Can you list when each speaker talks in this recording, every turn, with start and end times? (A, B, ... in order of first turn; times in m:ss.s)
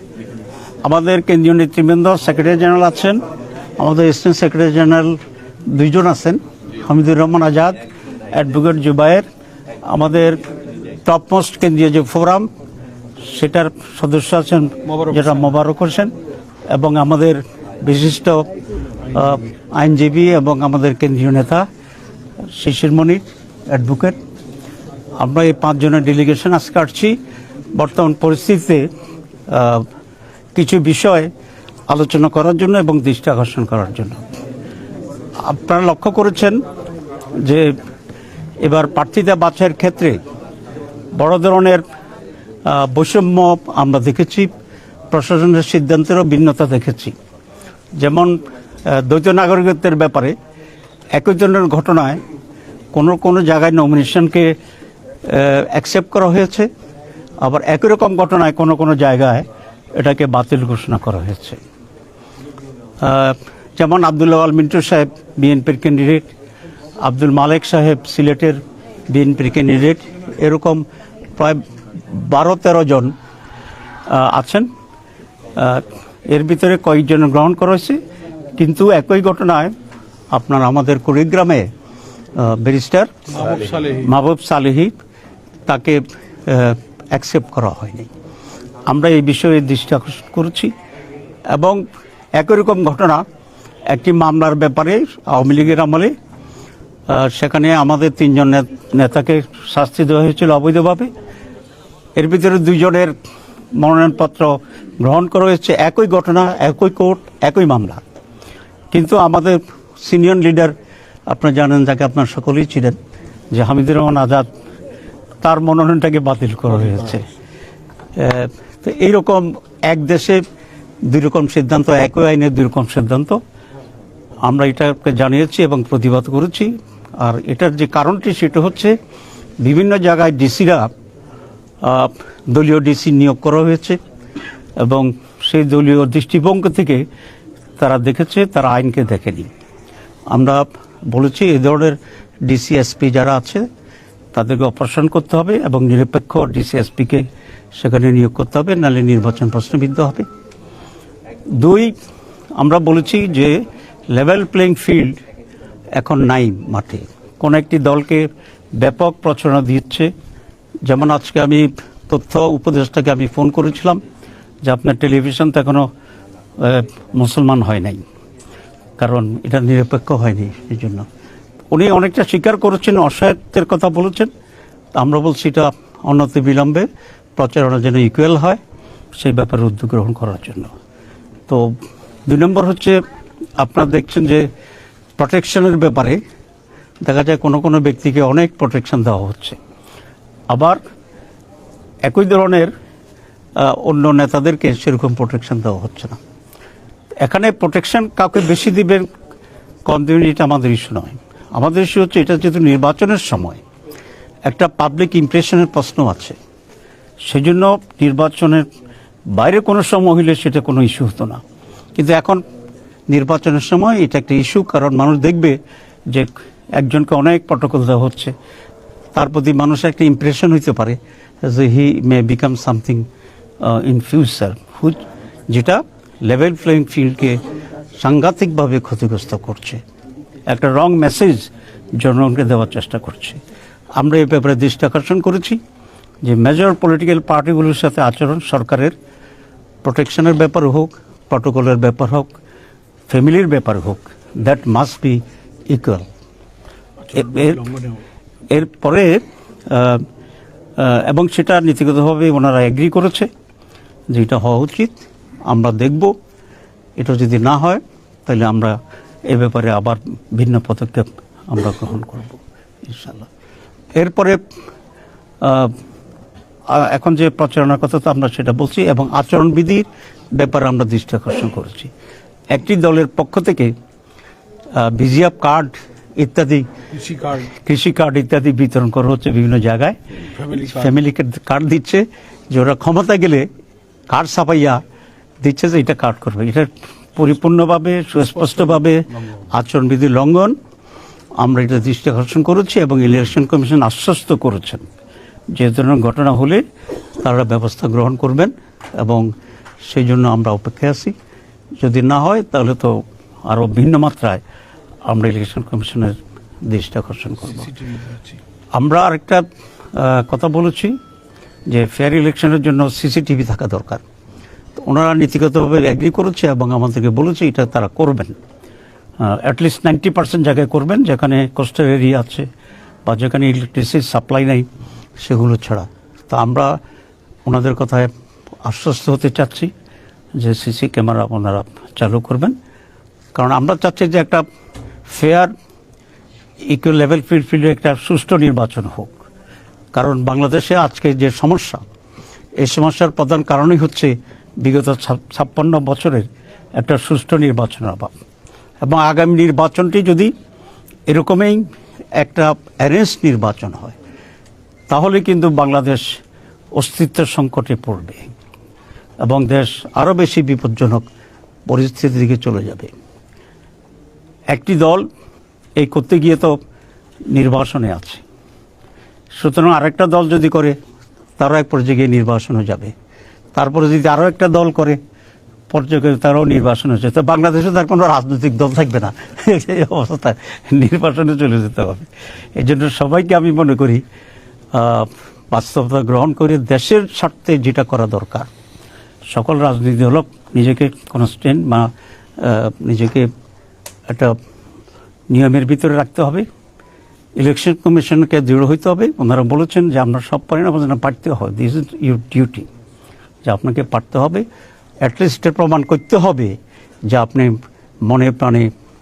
0:00.8-0:03.2 A
0:03.8-0:07.8 A
0:08.3-0:09.2 A
0:09.8-0:10.4 A
0:11.1-0:12.5 A
0:13.2-0:16.2 A
0:14.9-0:15.2 B
0:16.7-0:18.5 A
0:19.1-0:21.7 A
0:22.5-0:24.2 A
0:25.2-0:27.2 A
0:27.7-0:28.9 A
0:29.5-0:29.9 A
0:30.6-0:31.3 A
0:31.9-0:34.2 A
0:35.4-0:36.6 A
0:37.4-0:37.8 A
0:38.6-0:40.2 A
0:41.2-0:41.8 A
0:42.7-0:44.5 A
0:45.1-0:47.1 A
0:48.0-0:50.4 A
0:51.1-0:52.2 A
0:52.9-0:54.6 A
0:55.2-0:56.7 A
0:57.4-1:01.6 A
1:03.0-1:06.3 A
1:07.0-1:10.8 A
1:11.4-1:13.1 A
1:14.1-1:14.7 A
1:15.6-1:18.0 A
1:18.6-1:19.7 A
1:20.3-1:21.7 A
1:22.4-1:23.3 A
1:23.3-1:24.1 B
1:24.0-1:24.9 A
1:25.7-1:28.1 A
1:28.9-1:30.7 A
1:31.5-1:31.8 A
1:32.4-1:33.2 A
1:33.9-1:36.1 A
1:37.1-1:41.1 A
1:42.2-1:43.1 A
1:43.7-1:48.0 A
1:48.9-1:50.7 A
1:51.3-1:53.0 A
1:53.5-1:54.5 A
1:55.4-1:57.3 A
1:58.2-2:00.4 A
2:01.1-2:03.4 A
2:04.4-2:09.0 A
2:09.6-2:10.9 A
2:11.8-2:14.0 A
2:14.8-2:17.0 A
2:17.8-2:19.5 A
2:20.3-2:23.7 A
2:24.3-2:30.3 A
2:31.6-2:31.9 A
2:32.6-2:35.2 A
2:36.0-2:40.1 A
2:40.8-2:44.0 A
2:44.6-2:45.9 A
2:46.6-2:48.0 A
2:49.0-2:51.1 A
2:51.7-2:54.3 A
2:55.0-2:58.6 A
2:59.2-3:00.7 A
3:01.5-3:01.7 A
3:02.3-3:03.0 A
3:03.6-3:04.5 A
3:05.2-3:06.2 A
3:07.0-3:09.6 A
3:10.5-3:10.8 A
3:12.0-3:12.7 A
3:13.6-3:16.2 A
3:17.2-3:19.1 A
3:19.9-3:23.6 A
3:24.4-3:26.4 A
3:27.3-3:28.7 A
3:29.4-3:31.4 A
3:32.0-3:32.4 A
3:33.1-3:35.6 A
3:36.1-3:38.3 A
3:39.2-3:43.1 A
3:43.6-3:47.4 A
3:48.0-3:49.8 A
3:50.5-3:53.4 A
3:54.0-3:55.6 A
3:56.2-3:59.0 A
3:59.8-4:02.4 A
4:03.1-4:06.1 A
4:07.0-4:08.0 B
4:07.1-4:07.6 A
4:08.5-4:10.0 A
4:10.8-4:13.3 A
4:14.1-4:15.0 A
4:15.5-4:16.2 A
4:17.0-4:18.8 A
4:19.3-4:23.3 A
4:24.0-4:24.4 A
4:25.4-4:25.8 A
4:26.7-4:31.9 A
4:32.5-4:33.7 A
4:34.8-4:36.7 A
4:36.9-4:37.5 B
4:37.6-4:40.0 A
4:40.4-4:41.0 B
4:40.6-4:43.5 A
4:44.1-4:44.8 A
4:45.4-4:50.6 A
4:48.4-4:49.4 B
4:51.4-4:54.9 A
4:55.5-4:56.6 A
4:57.2-4:59.3 A
4:59.8-5:01.1 A
5:01.8-5:04.4 A
5:05.1-5:07.7 A
5:07.6-5:08.4 B
5:08.7-5:11.0 A
5:11.7-5:14.0 A
5:14.8-5:18.4 A
5:19.2-5:22.5 A
5:23.1-5:24.7 A
5:25.2-5:26.8 A
5:27.5-5:28.1 A
5:28.6-5:29.7 A
5:30.4-5:32.6 A
5:33.4-5:34.4 A
5:35.1-5:35.5 A
5:36.7-5:39.1 A
5:39.9-5:41.8 A
5:42.6-5:48.1 A
5:48.8-5:50.3 A
5:51.1-5:51.6 A
5:52.2-5:54.0 A
5:54.9-5:56.2 A
5:56.8-5:58.3 A
5:59.2-6:01.0 A
6:01.7-6:02.9 A
6:04.5-6:05.1 A
6:05.8-6:06.6 A
6:07.3-6:08.2 A
6:09.4-6:10.8 A
6:11.4-6:12.9 A
6:13.6-6:15.0 A
6:15.7-6:24.0 A
6:24.7-6:28.5 A
6:29.3-6:33.3 A
6:34.1-6:34.4 A
6:35.3-6:36.5 A
6:37.4-6:42.7 A
6:43.4-6:44.5 A
6:45.0-6:46.6 A
6:47.1-6:48.7 A